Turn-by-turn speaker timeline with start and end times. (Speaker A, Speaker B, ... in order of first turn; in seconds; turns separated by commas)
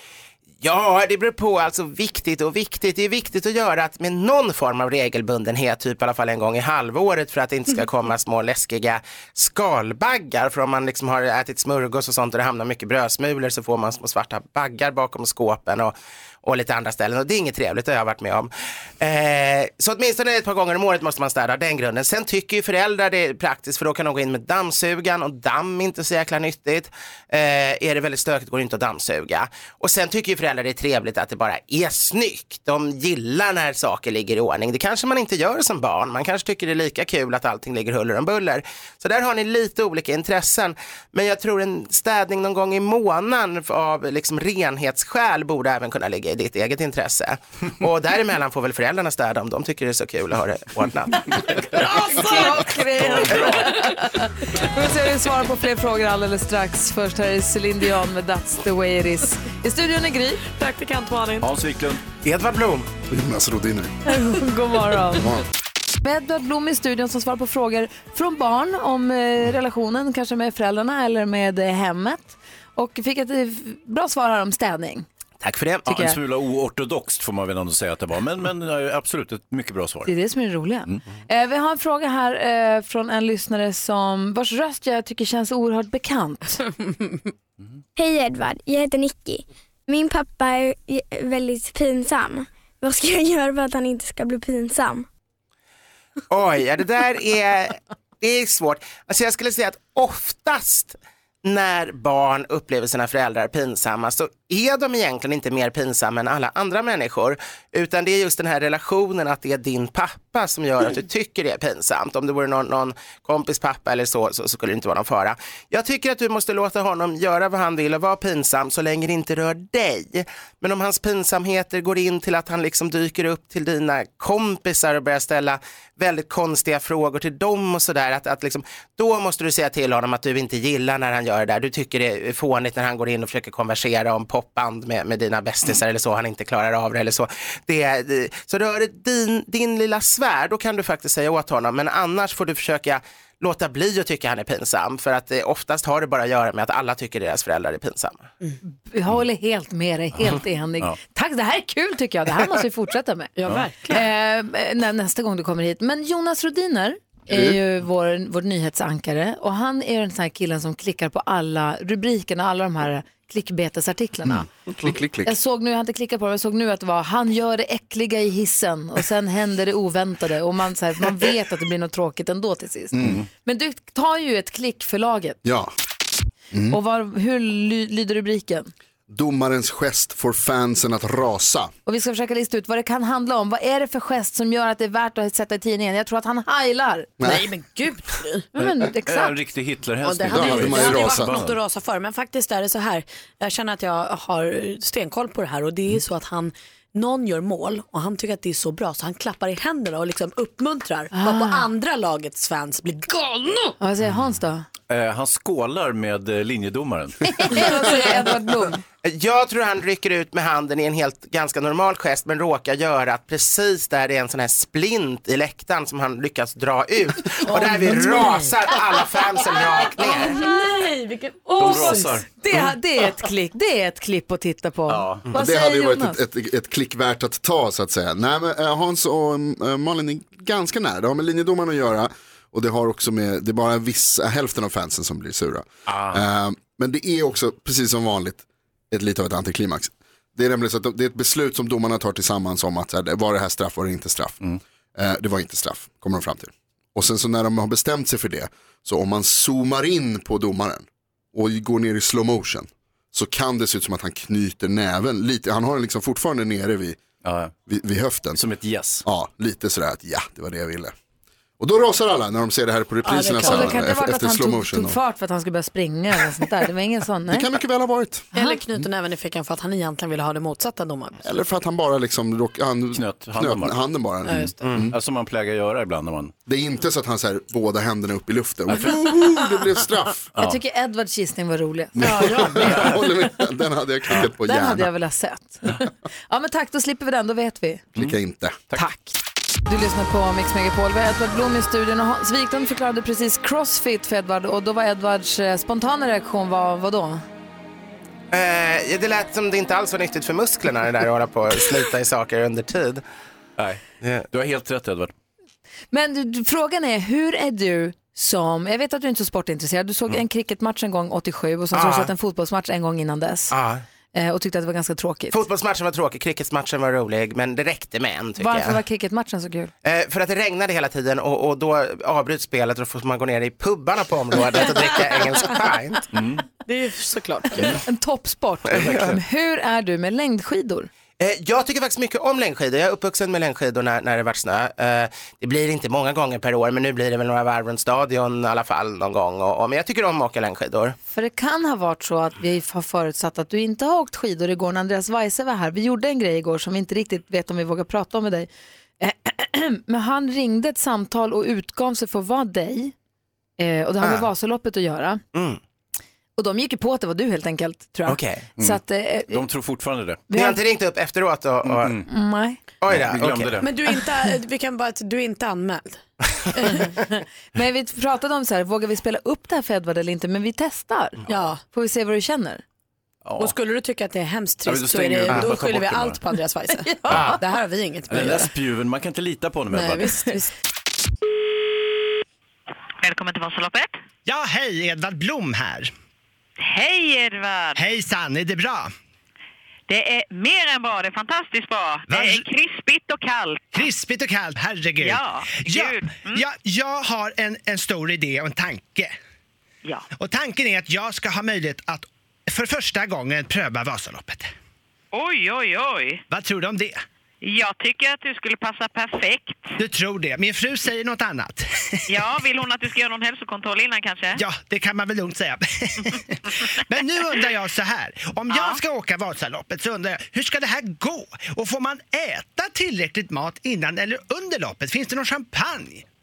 Speaker A: 0.6-51.3, Speaker B: 51.7-52.7, Speaker C: 52.0-60.4, Speaker D: 53.0-53.8, Speaker B: 60.5-61.5, Speaker D: 61.4-62.0, Speaker A: 62.2-62.9, Speaker E: 63.1-63.9, Speaker C: 64.1-65.3, Speaker C: 66.0-75.1, Speaker A: 75.4-75.9, Speaker D: 75.9-80.1, Speaker C: 75.9-76.2, Speaker C: 80.1-86.6, Speaker F: 88.0-95.1, Speaker A: 96.3-148.3, Speaker C: 148.9-153.3, Speaker B: 153.4-154.0, Speaker C: 153.9-164.5, Speaker E: 164.9-165.2, Speaker C: 165.2-175.4, Speaker D: 173.0-173.2, Speaker E: 175.4-175.7, Speaker C: 176.7-178.7, Speaker E: 179.1-181.7, Speaker C: 181.9-187.1, Speaker B: 187.2-188.4, Speaker C: 188.5-189.4, Speaker D: 188.6-191.6, Speaker B: 190.0-203.8, Speaker E: 190.3-191.3, Speaker C: 201.1-201.6, Speaker C: 203.8-204.7, Speaker D: 204.9-207.7, Speaker C: 207.3-208.8, Speaker A: 209.0-220.4, Speaker B: 217.4-222.2, Speaker D: 221.6-222.3, Speaker C: 221.6-226.2, Speaker D: 224.9-225.3, Speaker E: 225.4-238.4, Speaker E: 238.9-244.4, Speaker E: 245.0-257.0, Speaker D: 257.2-257.6, Speaker E: 257.7-258.4, Speaker D: 258.4-259.1, Speaker E: 259.1-260.9, Speaker E: 261.6-264.9, Speaker B: 263.0-263.9, Speaker C: 263.4-267.5, Speaker E: 267.3-268.2, Speaker B: 268.3-271.3, Speaker E: 271.2-274.9, Speaker D: 272.9-276.3, Speaker B: 274.3-274.6, Speaker A: 274.6-274.9, Speaker E: 276.5-280.3, Speaker D: 278.7-279.2, Speaker D: 280.3-280.6, Speaker C: 280.4-283.1, Speaker B: 282.0-282.9, Speaker E: 282.0-284.9, Speaker C: 284.3-287.9, Speaker E: 288.0-288.6, Speaker C: 288.7-297.2, Speaker A: 298.3-303.0, Speaker D: 303.6-305.1, Speaker C: 305.9-313.5, Speaker A: 311.7-312.1, Speaker A: 313.5-313.8, Speaker C: 314.1-315.4, Speaker A: 315.3-318.8, Speaker C: 318.4-319.7, Speaker A: 319.9-326.1, Speaker D: 326.1-326.4, Speaker B: 326.7-327.8, Speaker C: 327.7-330.9, Speaker A: 328.7-329.1, Speaker D: 328.7-329.2, Speaker A: 331.2-341.0, Speaker C: 341.1-348.5, Speaker C: 349.0-352.9, Speaker C: 353.6-355.2, Speaker A: 354.0-354.3, Speaker A: 355.3-355.6, Speaker C: 356.4-359.4, Speaker A: 358.1-358.4, Speaker D: 358.6-360.2, Speaker C: 360.3-360.6, Speaker A: 360.3-362.0, Speaker D: 361.6-362.1, Speaker C: 362.1-362.6, Speaker A: 362.8-363.6, Speaker D: 362.9-363.7, Speaker B: 363.6-366.0, Speaker B: 366.6-366.9, Speaker C: 366.8-372.6, Speaker B: 371.3-371.6, Speaker D: 373.2-373.6, Speaker B: 373.4-378.5, Speaker D: 374.6-376.2, Speaker D: 377.1-377.4, Speaker D: 378.1-380.2, Speaker B: 379.7-380.5, Speaker G: 383.0-384.0, Speaker H: 384.3-385.9, Speaker G: 386.6-387.8, Speaker H: 387.8-388.9, Speaker G: 389.9-393.9, Speaker H: 392.1-392.4, Speaker H: 393.7-399.1, Speaker G: 395.0-396.4, Speaker H: 400.2-404.5, Speaker G: 405.1-406.2, Speaker H: 406.3-407.0, Speaker G: 407.4-409.8, Speaker H: 409.8-412.1, Speaker G: 412.1-414.4, Speaker H: 414.4-426.1, Speaker G: 418.5-418.8